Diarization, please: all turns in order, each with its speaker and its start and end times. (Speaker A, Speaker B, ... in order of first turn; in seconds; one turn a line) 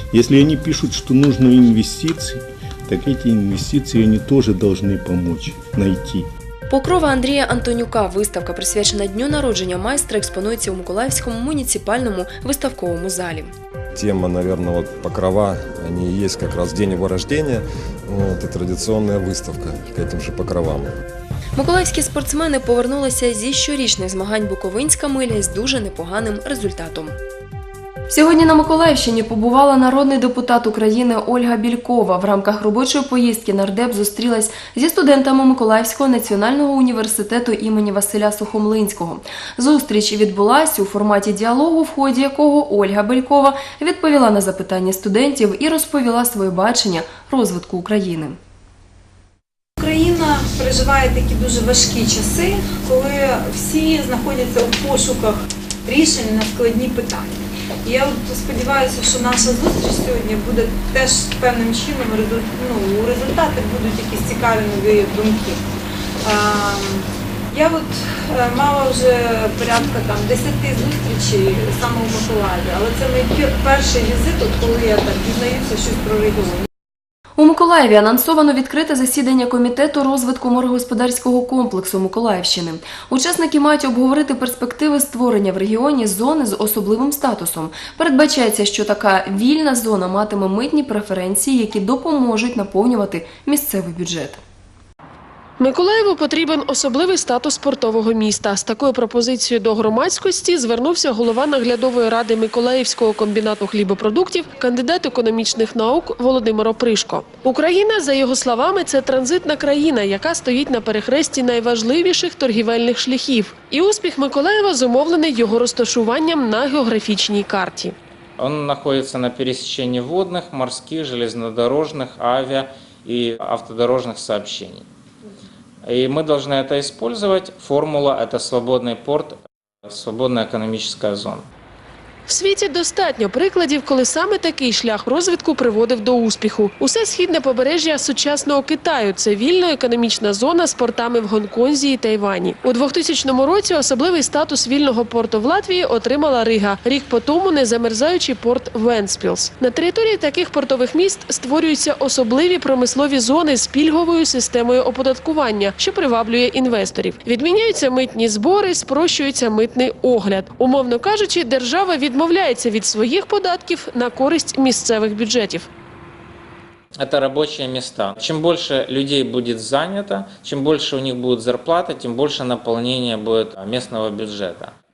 Speaker A: 0.1-6.3
Speaker B: 6.7-13.5
Speaker C: 13.9-20.9
Speaker B: 21.6-27.1
Speaker B: 28.1-48.4
Speaker D: 49.8-65.6
Speaker D: 66.2-76.7
Speaker B: 77.4-94.4
Speaker E: 95.6-117.9
Speaker F: 118.4-124.9
Speaker F: 125.8-131.5
Speaker E: 132.2-165.7
Speaker F: 167.0-174.7